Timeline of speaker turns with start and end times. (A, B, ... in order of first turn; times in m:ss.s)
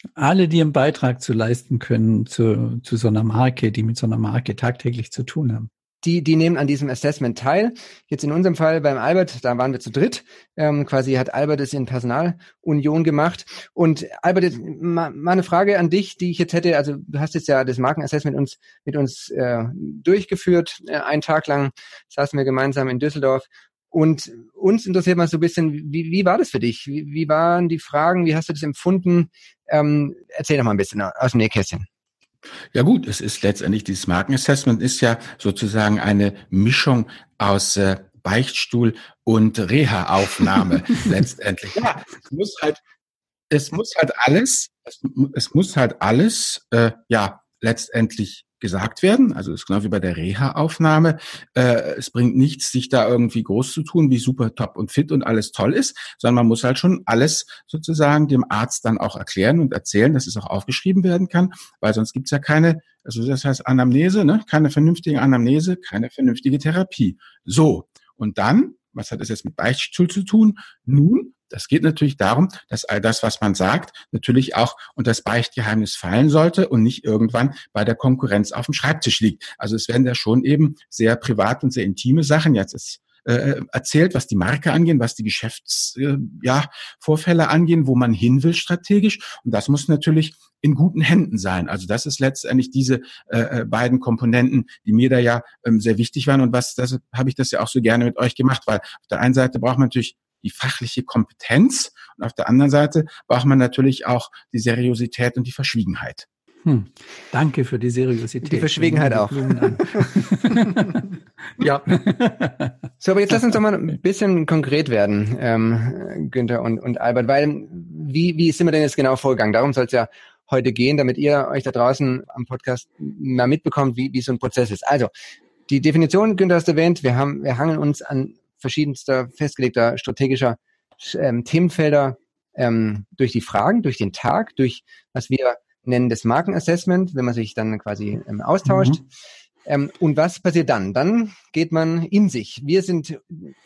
0:00.2-0:05.7 A
0:06.0-0:31.9 B
0:32.7-0:42.8 C
0:43.5-1:46.3 C
1:46.7-1:51.0 A
1:48.4-1:51.0 B
1:51.6-1:52.8 A
1:53.0-2:05.1 B
2:05.7-2:19.1 B
2:18.7-2:19.0 A
2:19.7-2:23.5 B